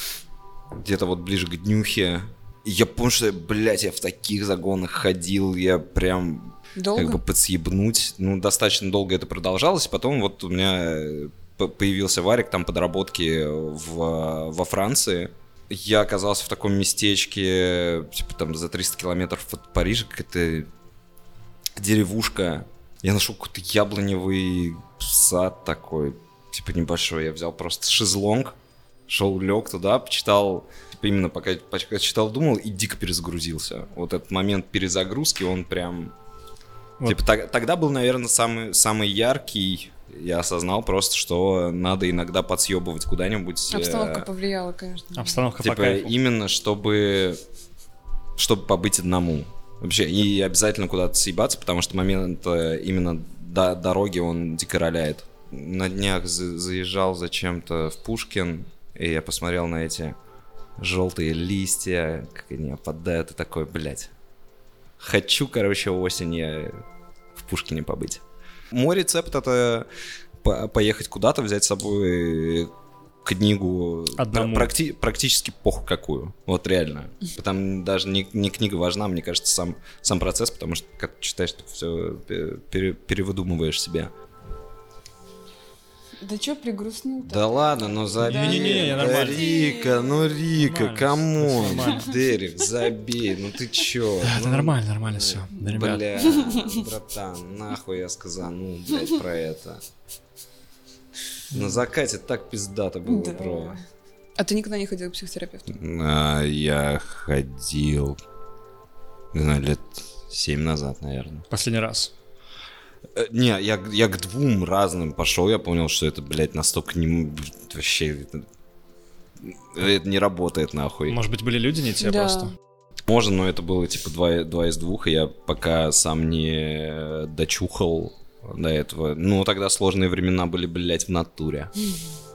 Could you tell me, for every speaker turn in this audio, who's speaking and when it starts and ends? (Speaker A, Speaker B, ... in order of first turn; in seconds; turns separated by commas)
Speaker A: 0.7-20.7, Speaker B: 6.8-7.2, Speaker A: 21.8-28.6, Speaker A: 29.1-36.1, Speaker A: 37.0-44.3, Speaker B: 43.7-45.4, Speaker C: 45.1-46.1, Speaker A: 45.6-47.4, Speaker A: 48.4-60.2, Speaker A: 60.8-64.1, Speaker A: 65.0-66.8, Speaker A: 67.3-69.9, Speaker A: 70.4-72.7, Speaker A: 73.2-84.1, Speaker C: 74.2-74.7, Speaker B: 86.2-90.4, Speaker A: 87.3-99.8, Speaker C: 88.2-89.5, Speaker C: 90.5-92.2, Speaker C: 94.2-96.0, Speaker B: 96.2-96.8, Speaker A: 101.5-103.8, Speaker C: 101.5-101.8, Speaker B: 103.0-103.8, Speaker B: 104.4-105.8, Speaker A: 105.7-108.2, Speaker A: 109.3-111.4, Speaker C: 111.5-112.1, Speaker A: 113.1-118.5, Speaker A: 119.4-121.2, Speaker C: 121.1-122.5, Speaker B: 122.0-122.5, Speaker A: 123.0-131.7